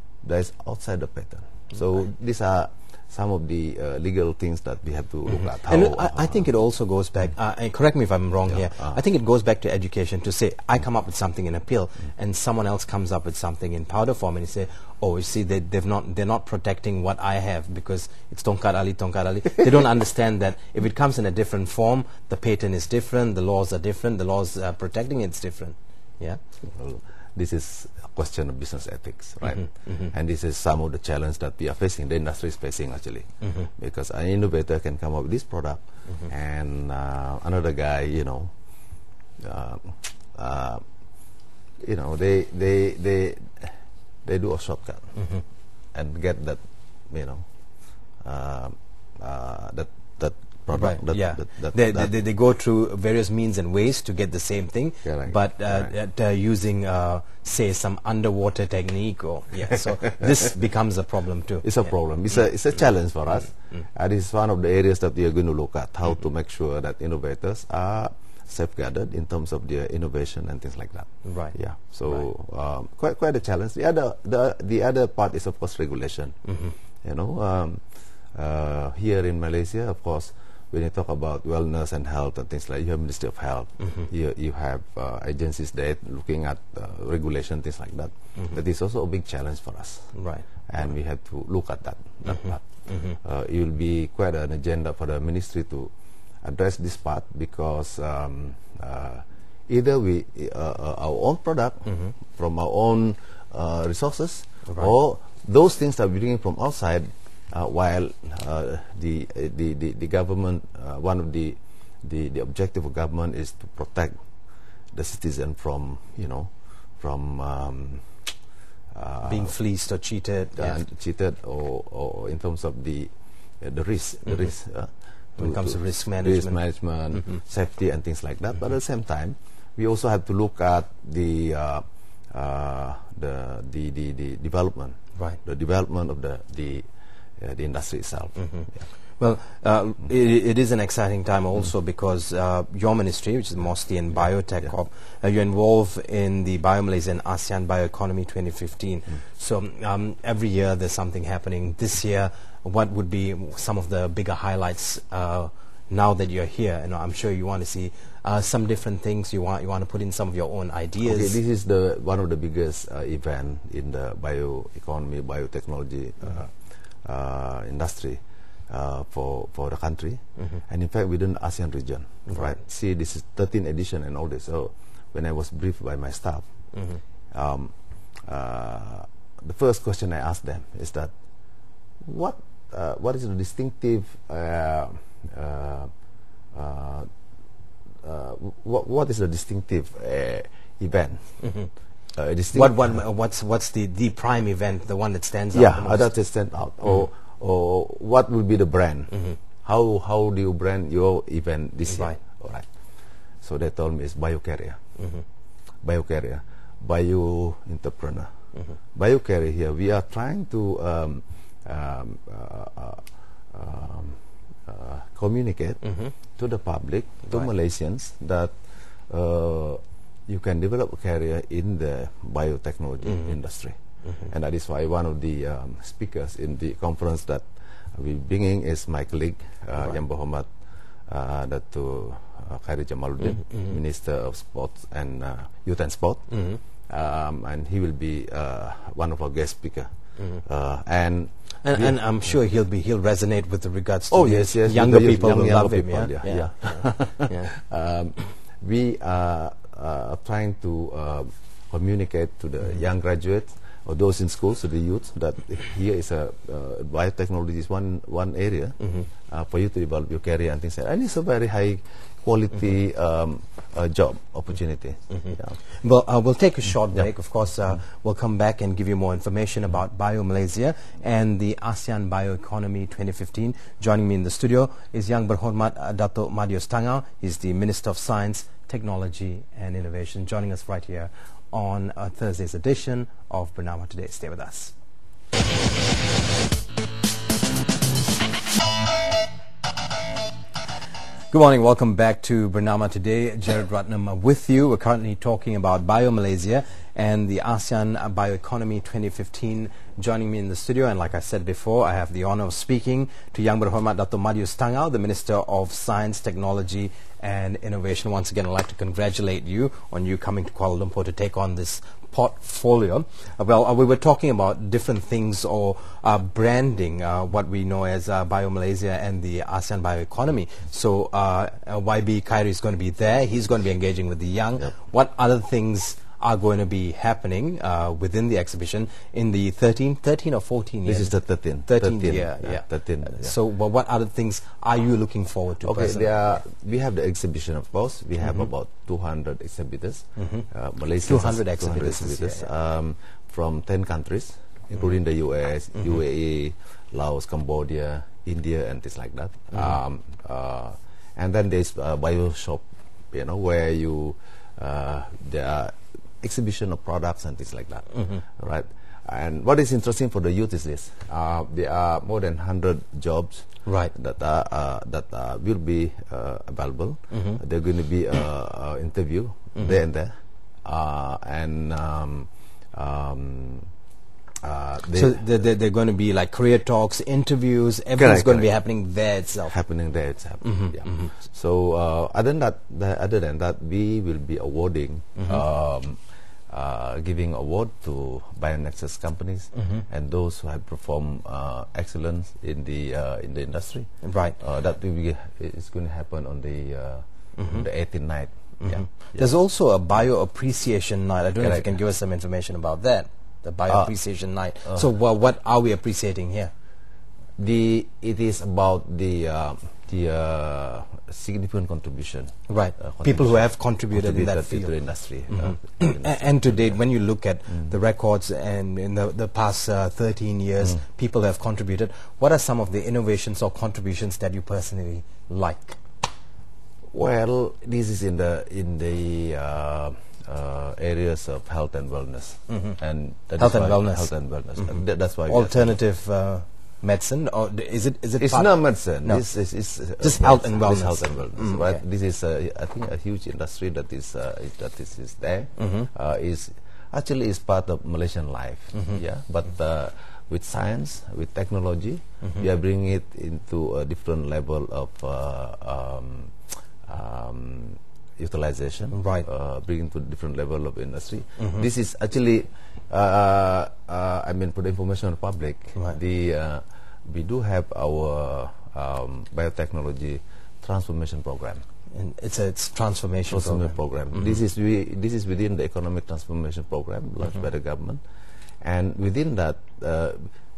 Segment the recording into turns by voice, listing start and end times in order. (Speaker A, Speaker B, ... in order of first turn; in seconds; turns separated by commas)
Speaker A: 0.2-6.4, Speaker B: 5.3-26.4, Speaker A: 8.5-9.0, Speaker A: 26.6-38.5, Speaker B: 29.5-30.1, Speaker B: 33.4-33.7, Speaker A: 39.4-40.8, Speaker A: 41.8-45.1, Speaker B: 45.1-45.4, Speaker A: 45.9-47.4, Speaker A: 48.2-52.1, Speaker B: 50.7-61.9, Speaker A: 55.0-55.9, Speaker A: 61.6-76.3, Speaker B: 71.2-71.5, Speaker B: 76.5-76.7, Speaker A: 77.0-77.8, Speaker A: 78.3-90.1, Speaker B: 83.8-84.1, Speaker B: 90.2-90.4, Speaker A: 90.7-95.9, Speaker B: 92.3-93.2, Speaker A: 96.4-114.2, Speaker B: 101.8-102.1, Speaker B: 104.7-104.9, Speaker A: 114.9-118.3, Speaker A: 118.9-119.5, Speaker B: 119.2-120.8, Speaker A: 120.6-136.9, Speaker B: 125.4-126.6, Speaker A: 137.4-138.8, Speaker B: 138.4-138.7, Speaker B: 139.2-161.4, Speaker A: 161.0-176.4, Speaker A: 177.3-177.7, Speaker A: 178.2-181.1, Speaker A: 182.0-185.9, Speaker A: 186.5-187.1, Speaker A: 188.0-191.4, Speaker B: 191.4-191.7, Speaker A: 192.1-192.9, Speaker B: 192.5-196.1, Speaker A: 195.5-202.7, Speaker B: 201.9-202.2, Speaker A: 203.4-204.8, Speaker A: 205.8-208.3, Speaker A: 208.9-215.8, Speaker B: 215.8-216.1, Speaker A: 216.3-223.8, Speaker A: 224.3-230.5, Speaker A: 231.1-236.3, Speaker B: 233.4-233.7, Speaker B: 236.3-236.6, Speaker A: 236.8-239.9, Speaker A: 240.4-242.0, Speaker B: 241.6-247.5, Speaker A: 244.1-265.6, Speaker B: 265.2-284.7, Speaker B: 291.3-336.1, Speaker A: 330.9-333.4, Speaker A: 335.6-373.7, Speaker B: 340.2-340.4, Speaker B: 341.0-342.5, Speaker B: 363.6-363.9, Speaker B: 367.1-367.4, Speaker A: 374.4-375.2, Speaker B: 374.9-379.5, Speaker A: 378.0-378.5, Speaker A: 379.5-386.0, Speaker B: 380.4-381.1, Speaker B: 385.2-385.4, Speaker A: 386.5-399.3, Speaker B: 389.5-389.8, Speaker B: 394.0-394.4, Speaker B: 397.4-397.6, Speaker B: 398.6-406.5, Speaker A: 401.4-401.7, Speaker A: 407.4-416.8, Speaker B: 412.5-414.7, Speaker B: 415.3-425.8, Speaker A: 426.9-435.7, Speaker B: 432.5-432.8, Speaker B: 433.4-439.2, Speaker A: 438.2-471.6, Speaker B: 440.0-441.8, Speaker B: 445.6-445.9, Speaker B: 448.7-449.0, Speaker B: 458.9-459.2, Speaker B: 461.4-461.6, Speaker B: 471.9-474.4, Speaker A: 473.3-478.0, Speaker A: 478.6-480.3